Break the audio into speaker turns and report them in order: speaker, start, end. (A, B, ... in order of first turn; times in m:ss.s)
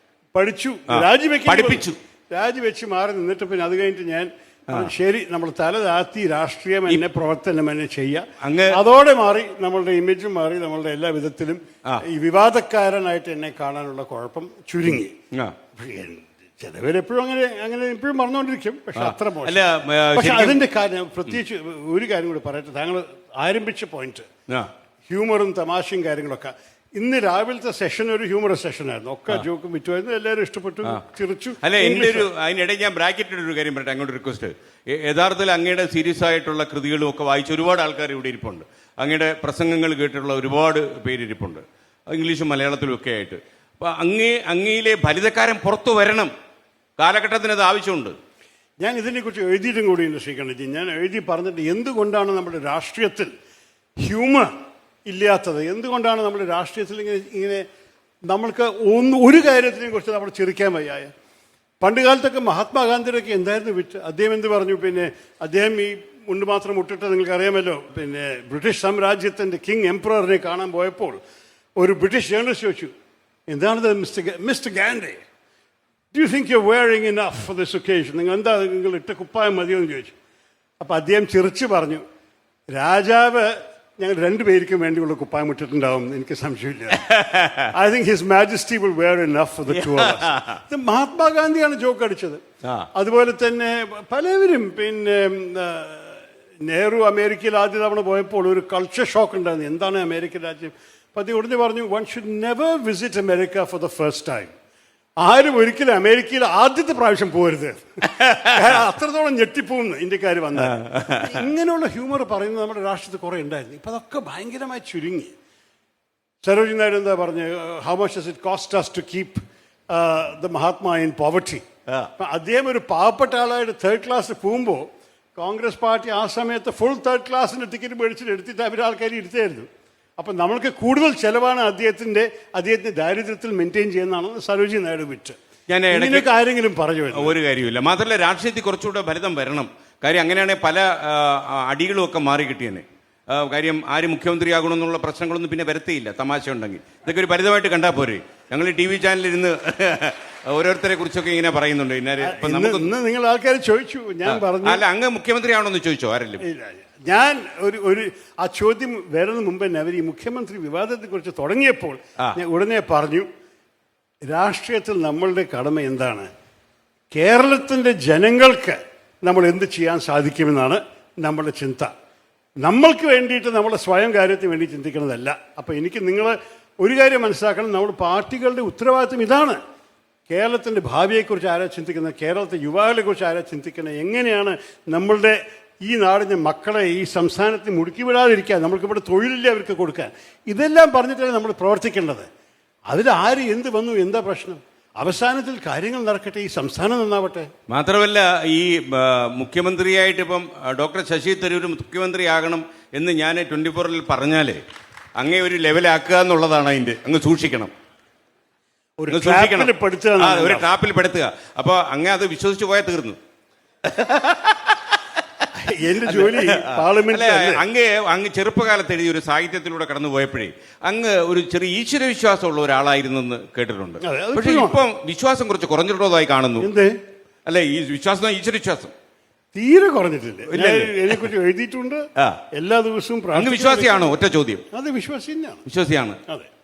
0:00.3-0:15.1 A
0:00.9-0:02.0 B
0:08.4-0:08.8 B
0:15.7-0:24.3 A
0:19.0-0:20.6 B
0:25.1-0:32.3 A
0:31.6-0:46.3 B
0:47.0-0:48.1 B
0:48.8-0:53.3 A
0:54.0-0:54.5 A
0:55.0-0:57.6 A
0:58.2-1:01.1 A
1:01.8-1:11.2 A
1:11.8-1:12.9 A
1:13.5-1:15.2 A
1:16.1-1:20.1 A
1:20.8-1:22.0 A
1:22.7-1:27.0 A
1:26.9-1:27.7 B
1:27.7-1:32.4 A
1:29.7-1:30.6 B
1:33.0-1:44.5 A
1:45.2-1:47.9 A
1:48.2-1:48.6 B
1:48.4-1:55.3 A
1:50.6-1:51.5 B
1:56.4-2:01.6 A
2:02.2-2:15.4 A
2:15.7-2:16.3 B
2:15.9-2:17.4 A
2:17.1-2:32.9 B
2:32.2-2:34.8 A
2:34.2-2:36.4 B
2:36.4-2:43.3 A
2:44.2-2:46.3 A
2:47.1-2:51.9 A
2:52.6-2:59.6 A
3:00.3-3:12.3 A
3:12.9-3:17.5 A
3:17.7-3:24.6 B
3:25.2-3:27.7 B
3:29.0-3:30.7 A
3:29.1-3:33.2 B
3:33.8-3:35.4 B
3:35.6-3:37.6 A
3:36.0-3:46.7 B
3:44.0-3:44.8 A
3:46.6-3:46.9 A
3:47.4-3:48.9 B
3:49.5-3:54.2 A
3:50.5-3:51.3 B
3:53.3-3:54.6 B
3:54.7-3:55.6 A
3:55.6-3:56.2 B